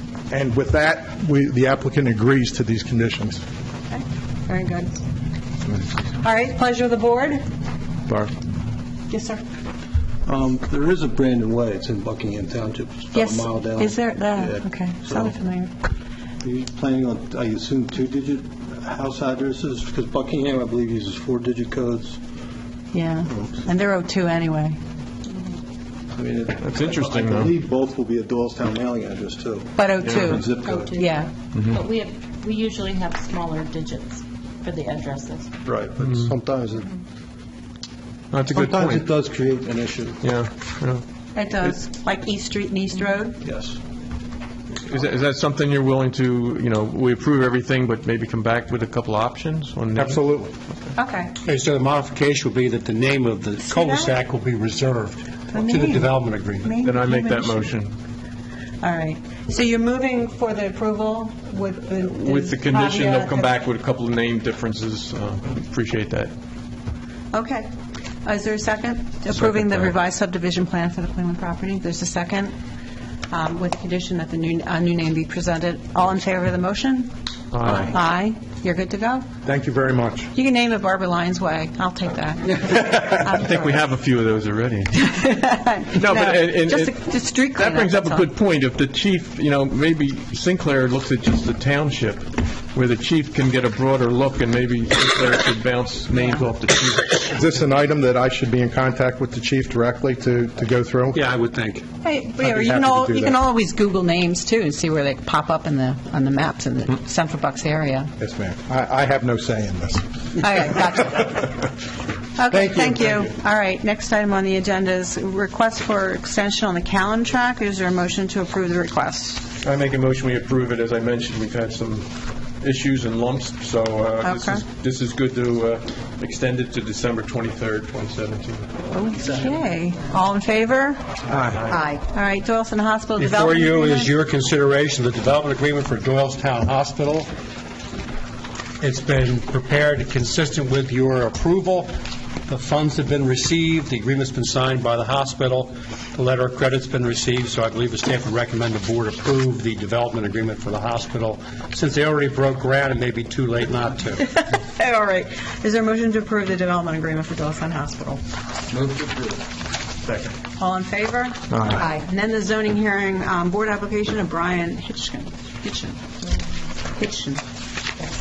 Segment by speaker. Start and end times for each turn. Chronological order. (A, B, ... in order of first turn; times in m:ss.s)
0:00.3-0:03.4 A
0:03.9-0:05.0 B
0:06.2-0:07.4 B
0:09.1-0:09.4 B
0:10.2-0:15.4 C
0:13.1-0:15.7 B
0:16.4-0:22.2 C
0:22.9-0:24.8 B
0:26.2-0:31.1 C
0:26.6-0:27.6 D
0:29.8-0:31.3 B
0:30.0-0:30.3 D
0:30.6-0:35.5 E
0:35.7-0:36.3 D
0:35.7-0:36.9 C
0:38.3-0:39.1 D
0:38.5-0:40.3 C
0:40.2-0:41.0 D
0:41.4-0:43.4 B
0:43.4-0:43.8 C
0:44.7-0:50.3 D
0:50.0-0:50.5 A
0:51.0-0:51.4 B
0:51.4-0:56.7 F
0:53.6-0:54.2 B
0:55.5-0:57.7 B
0:56.8-0:57.9 D
0:58.8-1:03.5 B
1:02.1-1:06.3 D
1:07.3-1:07.7 B
1:08.2-1:12.5 B
1:09.3-1:09.9 D
1:13.3-1:17.1 B
1:17.5-1:18.0 D
1:17.6-1:19.3 B
1:19.4-1:20.3 A
1:20.3-1:23.7 B
1:22.6-1:25.2 D
1:25.0-1:28.3 B
1:25.9-1:37.3 D
1:36.1-1:36.4 B
1:37.3-1:41.2 A
1:41.1-1:42.9 F
1:42.0-1:48.1 B
1:42.7-1:43.4 A
1:48.2-1:50.8 A
1:50.4-1:51.5 B
1:52.4-1:59.4 B
1:52.5-1:53.3 A
1:59.6-2:08.7 D
2:04.2-2:04.6 B
2:08.9-2:11.0 B
2:11.7-2:14.1 B
2:13.2-2:17.3 F
2:18.8-2:21.9 F
2:22.5-2:34.3 F
2:34.3-2:38.2 B
2:39.0-2:39.2 C
2:40.0-2:40.3 D
2:40.6-2:46.0 B
2:41.5-2:41.8 D
2:46.9-2:47.4 B